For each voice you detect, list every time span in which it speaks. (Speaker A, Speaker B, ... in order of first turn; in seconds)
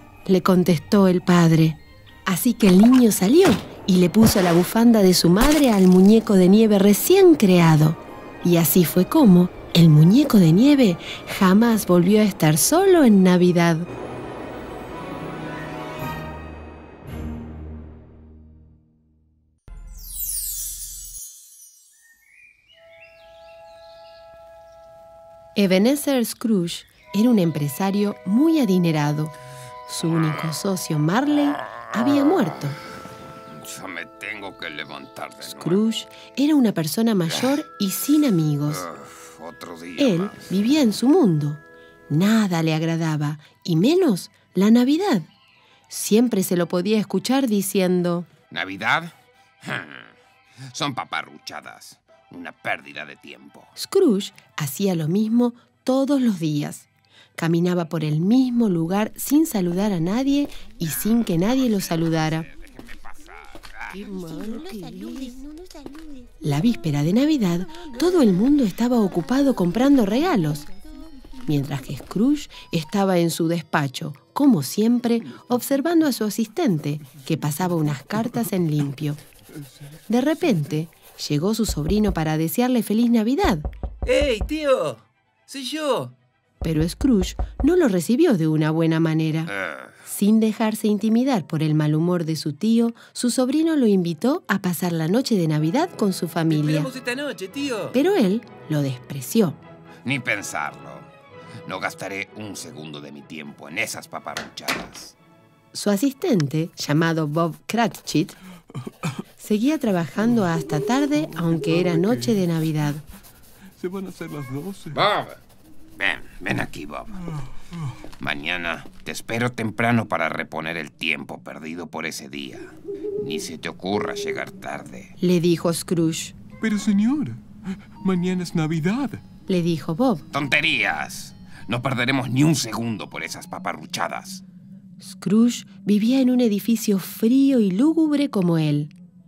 Speaker A: 0.2-13.9, 25.6-29.3, 29.9-32.8, 35.4-38.8, 40.0-45.3, 45.9-48.3, 53.8-62.5, 64.6-65.0, 66.4-70.7, 71.5-79.2, 80.1-83.7, 86.6-89.5, 90.0-96.9, 97.9-99.6, 105.7-108.3, 109.4-113.0, 125.2-126.3, 129.5-130.2, 135.0-138.9
Speaker B: 33.5-35.8, 38.7-40.5, 48.5-50.1, 50.7-53.7, 60.9-64.0, 89.5-89.9, 100.0-101.1, 101.6-105.1, 114.9-115.4, 116.0-117.1, 118.2-125.1, 130.3-134.4
Speaker C: 63.9-66.3, 67.7-68.1
Speaker D: 84.0-86.1, 96.5-97.9
Speaker E: 110.3-112.4, 113.8-115.0, 117.3-117.9, 126.6-127.4, 128.0-129.2